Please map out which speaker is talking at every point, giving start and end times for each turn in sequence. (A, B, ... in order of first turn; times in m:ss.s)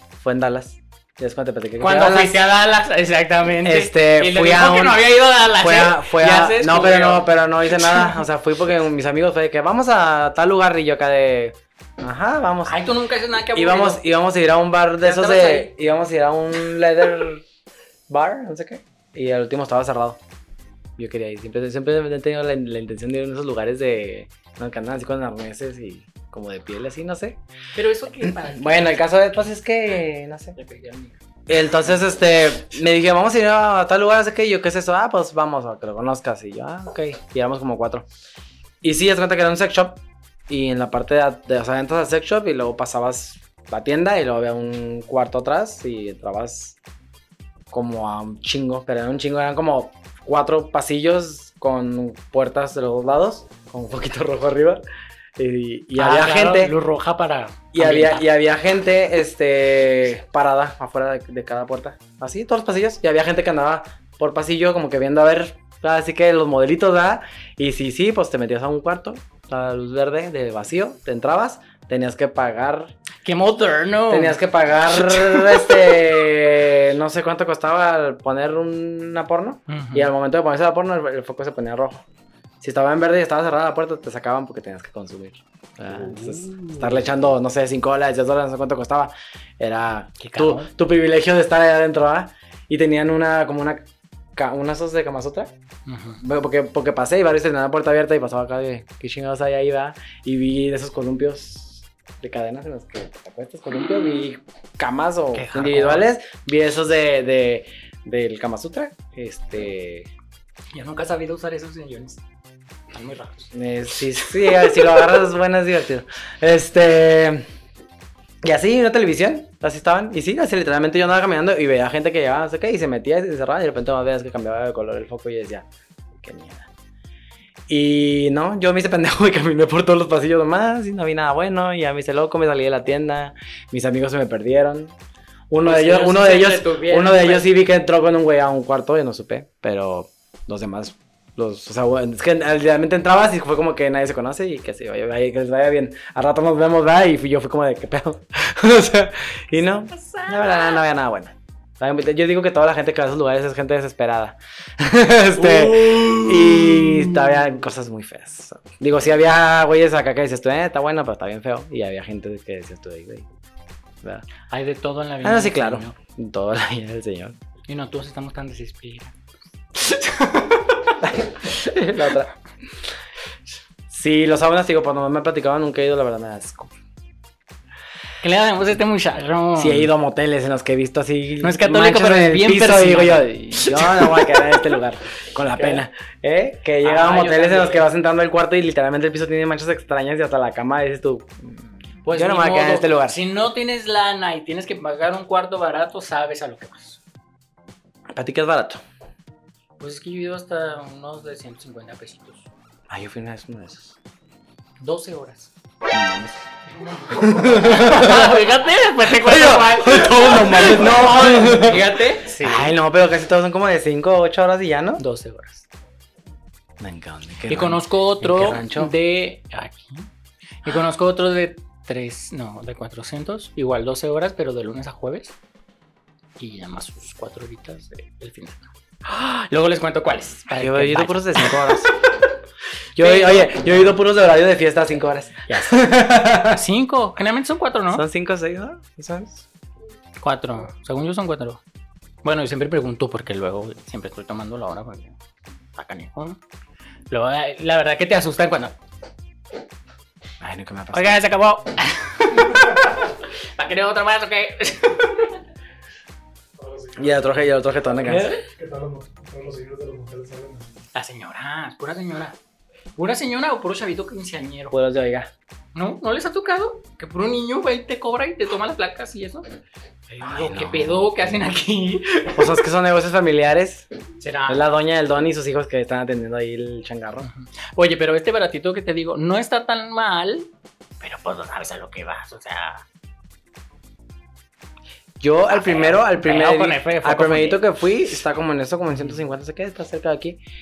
0:00.2-0:02.4 A
0:01.8-0:08.2 B
0:03.6-0:12.8 A
0:12.6-0:14.0 B
0:13.5-0:17.4 A
0:15.0-0:15.7 B
0:18.1-0:20.2 A
0:21.0-0:27.4 A
0:27.7-0:29.0 B
0:28.2-0:30.6 A
0:30.5-0:31.2 B
0:31.5-0:38.0 A
0:38.8-0:46.8 A
0:47.7-0:54.8 A
0:55.4-0:56.7 A
0:56.0-0:58.3 B
0:57.7-1:12.9 A
1:13.2-1:15.8 B
1:14.1-1:22.0 A
1:19.7-1:20.1 B
1:22.6-1:35.5 A
1:25.8-1:27.1 B
1:30.2-1:30.7 B
1:35.8-1:36.2 B
1:36.2-1:50.1 A
1:45.3-1:46.1 B
1:50.7-1:52.2 B
1:52.9-1:53.5 B
1:53.5-1:57.4 A
1:58.4-2:05.7 A
2:06.2-2:06.7 A
2:07.7-2:15.0 A
2:15.5-2:43.3 A
2:15.6-2:17.5 B
2:29.9-2:30.8 B
2:35.4-2:37.4 B
2:44.5-2:45.9 B
2:45.2-2:47.4 A
2:47.7-2:49.1 B
2:49.7-2:51.0 B
2:51.0-2:52.3 A
2:53.9-2:56.7 A
2:58.2-2:59.9 B
2:59.6-3:13.2 A
3:01.4-3:04.7 B
3:05.5-3:05.8 B
3:06.8-3:07.9 B
3:12.0-3:17.0 B
3:18.1-3:18.8 A
3:19.8-3:22.5 B
3:22.9-3:24.0 A
3:24.8-3:25.5 B
3:25.9-3:26.4 A
3:26.9-3:32.7 B
3:27.1-3:28.4 A
3:29.0-3:35.0 A
3:35.0-3:35.7 B
3:36.8-3:38.9 A
3:37.5-3:40.1 B
3:40.6-3:45.4 B
3:46.4-3:51.9 B
3:50.5-3:51.9 A
3:53.0-3:56.6 A
3:53.0-3:54.0 B
3:55.5-3:55.8 B
3:56.4-3:58.0 B
3:57.9-3:59.4 A
4:00.2-4:01.6 B
4:02.2-4:05.2 B
4:05.7-4:06.4 B
4:07.1-4:08.8 B
4:10.4-4:11.2 A
4:10.9-4:15.4 B
4:16.6-4:17.4 C
4:17.0-4:18.3 A
4:18.0-4:18.4 B
4:18.5-4:20.7 C
4:20.9-4:22.4 B
4:23.0-4:24.7 B
4:24.7-4:25.3 A
4:25.7-4:29.4 B
4:30.1-4:32.6 B
4:30.2-4:31.4 A
4:32.3-4:33.9 A
4:34.2-4:34.6 B
4:34.5-4:37.3 A
4:37.2-4:42.8 B
4:45.2-4:50.4 A
4:45.5-4:47.7 B